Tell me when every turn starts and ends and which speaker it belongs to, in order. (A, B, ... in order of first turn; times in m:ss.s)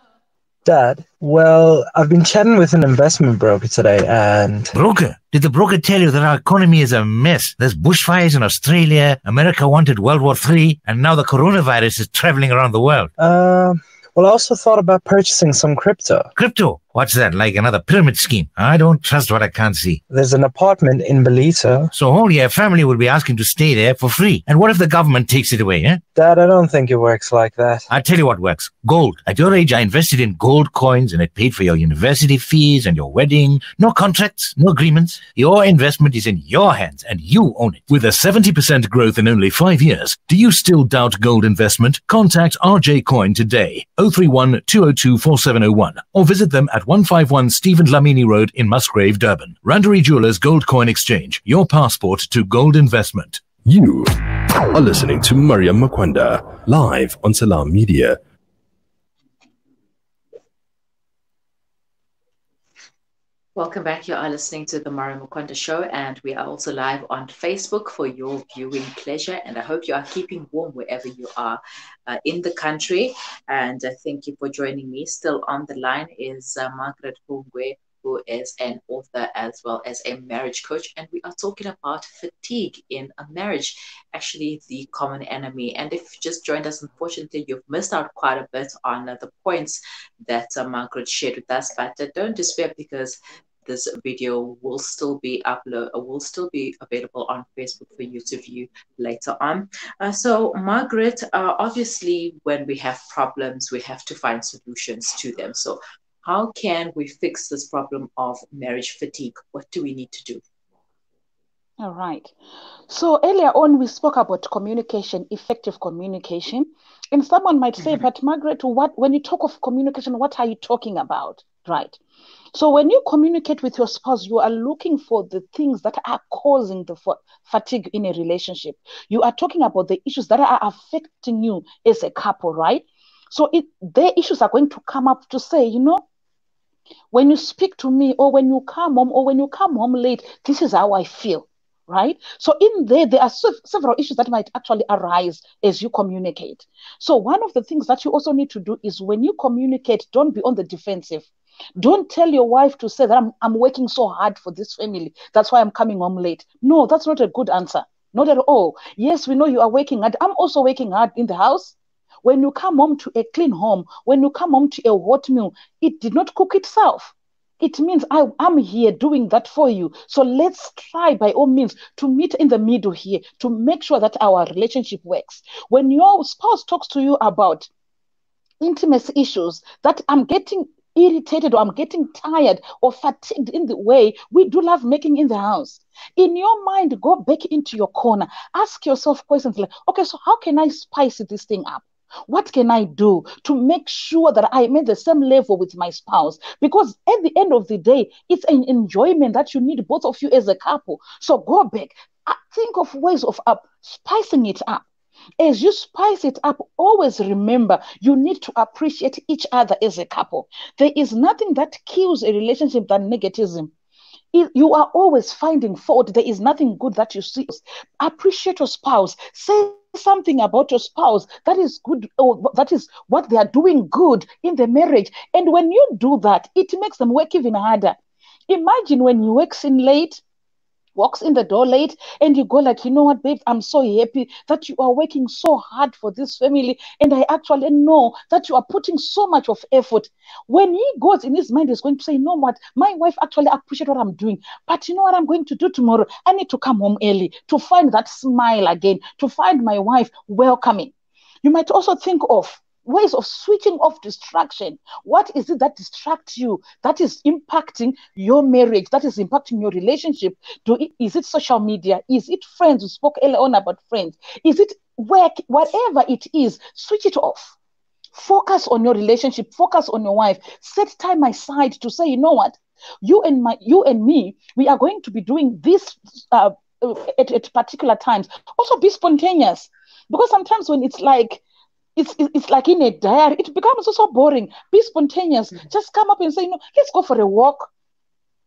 0:00.6-0:04.7 A
0:04.7-0:13.1 B
0:13.2-0:16.3 A
0:16.4-0:20.0 B
0:20.1-0:21.9 A
0:21.9-0:26.0 B
0:26.1-0:27.9 A
0:27.9-0:53.4 B
0:53.6-0:58.2 C
1:03.5-1:50.4 D
1:51.8-1:52.3 E
1:52.9-2:02.0 E
2:02.5-2:16.0 E
2:17.1-2:57.7 E
2:58.6-3:24.8 E
3:25.4-3:33.7 E
3:34.3-3:48.0 E
3:48.5-3:50.2 E
3:51.0-4:10.9 E
4:11.4-4:27.5 E
4:28.1-4:41.4 E
4:42.0-4:47.7 E